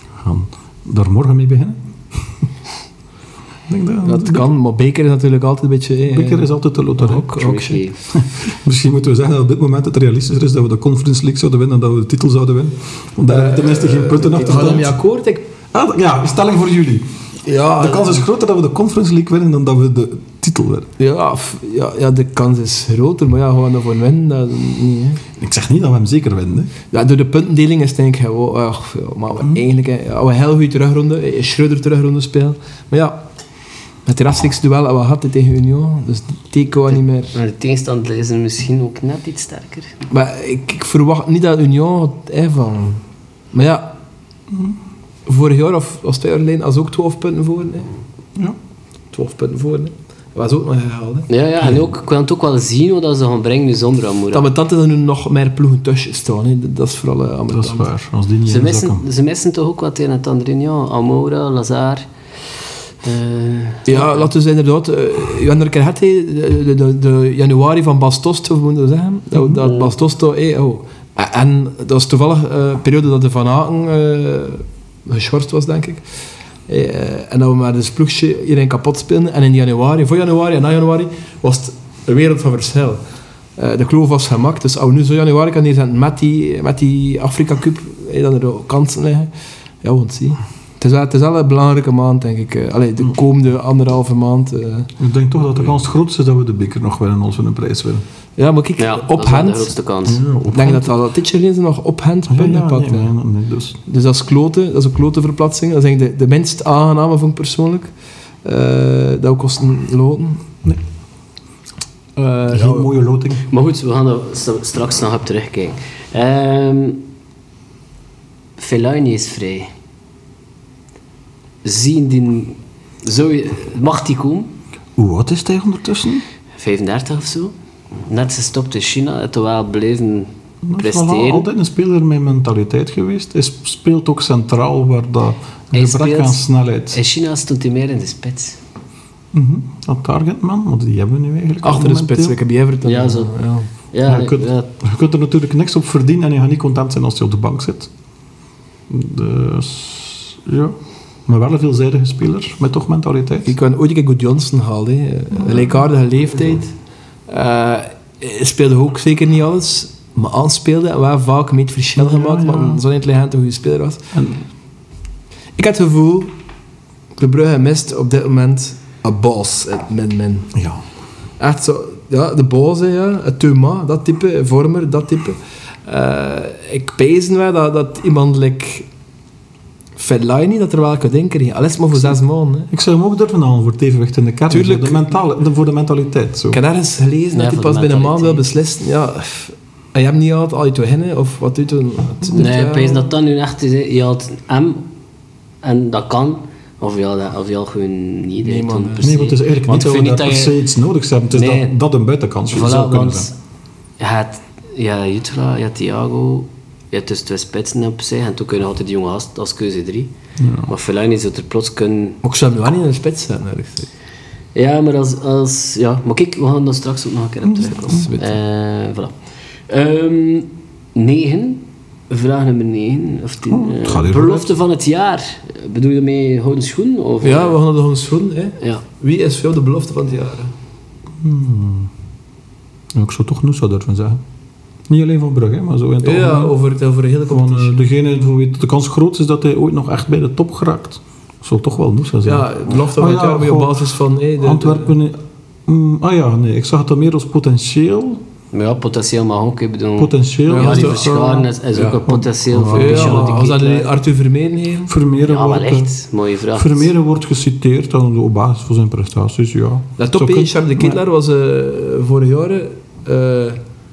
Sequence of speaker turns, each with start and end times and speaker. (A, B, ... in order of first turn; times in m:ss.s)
0:00.2-0:02.2 A
0:03.7-0:04.5 A
0:04.0-0:07.8 B
0:06.1-0:07.3 A
0:07.2-0:08.0 C
0:08.1-0:14.9 A
0:13.3-0:15.4 B
0:15.7-0:17.1 A
0:17.4-0:18.2 B
0:17.8-0:20.9 A
0:21.0-0:25.2 B
0:25.4-0:26.7 A
0:26.9-0:33.2 B
0:34.0-0:37.3 B
0:37.3-0:39.9 C
0:40.1-0:43.9 B
0:44.5-0:44.8 A
0:45.3-0:47.9 B
0:49.1-0:51.3 B
0:51.3-0:54.5 C
0:54.3-0:57.9 B
0:57.5-0:59.0 A
0:58.4-1:02.1 C
1:03.0-1:04.3 C
1:03.8-1:16.0 B
1:09.3-1:09.6 A
1:16.7-1:23.0 B
1:23.6-1:29.3 B
1:29.8-1:34.9 B
1:35.0-1:38.0 A
1:38.4-1:39.7 B
1:38.8-1:40.2 C
1:40.0-1:40.9 A
1:40.5-1:43.1 B
1:42.3-1:43.8 A
1:43.8-1:47.9 B
1:48.4-1:50.4 B
1:52.2-1:52.9 B
1:52.5-1:53.4 A
1:53.5-1:57.0 C
1:58.6-1:59.7 C
2:01.6-2:04.5 C
2:05.0-2:06.2 A
2:06.6-2:07.5 C
2:08.0-2:11.4 C
2:10.6-2:17.0 A
2:15.7-2:16.4 C
2:16.9-2:18.6 C
2:19.3-2:22.4 A
2:21.6-2:23.7 B
2:22.8-2:23.3 C
2:23.9-2:24.7 C
2:24.0-2:27.9 A
2:28.9-2:33.5 A
2:33.4-2:36.7 B
2:37.3-2:44.0 B
2:42.0-2:42.8 A
2:44.1-2:44.4 A
2:45.6-2:46.3 B
2:47.2-2:50.5 B
2:50.5-2:50.8 A
2:51.4-2:58.9 B
3:00.0-3:02.7 B
3:02.7-3:06.6 A
3:04.5-3:05.1 B
3:06.5-3:13.1 B
3:07.3-3:08.4 C
3:12.3-3:14.8 C
3:15.6-3:20.6 C
3:18.4-3:19.1 B
3:19.0-3:23.3 A
3:21.3-3:21.7 C
3:22.5-3:23.3 C
3:24.0-3:30.1 C
3:30.4-3:30.7 A
3:30.7-3:32.2 C
3:32.2-3:33.9 B
3:34.5-3:39.1 C
3:37.4-3:38.0 A
3:37.8-3:38.4 B
3:39.7-3:47.6 C
3:43.5-3:44.5 A
3:47.2-3:50.5 B
3:51.2-3:51.9 A
3:52.9-3:54.2 A
3:54.9-3:56.5 A
3:56.0-3:57.8 B
3:57.3-4:08.2 A
4:02.2-4:04.9 B
4:08.5-4:13.9 C
4:10.0-4:11.4 A
4:10.5-4:12.0 B
4:12.0-4:13.4 A
4:12.7-4:14.9 B
4:14.9-4:15.9 A
4:15.3-4:16.9 C
4:16.5-4:21.0 A
4:20.0-4:23.6 B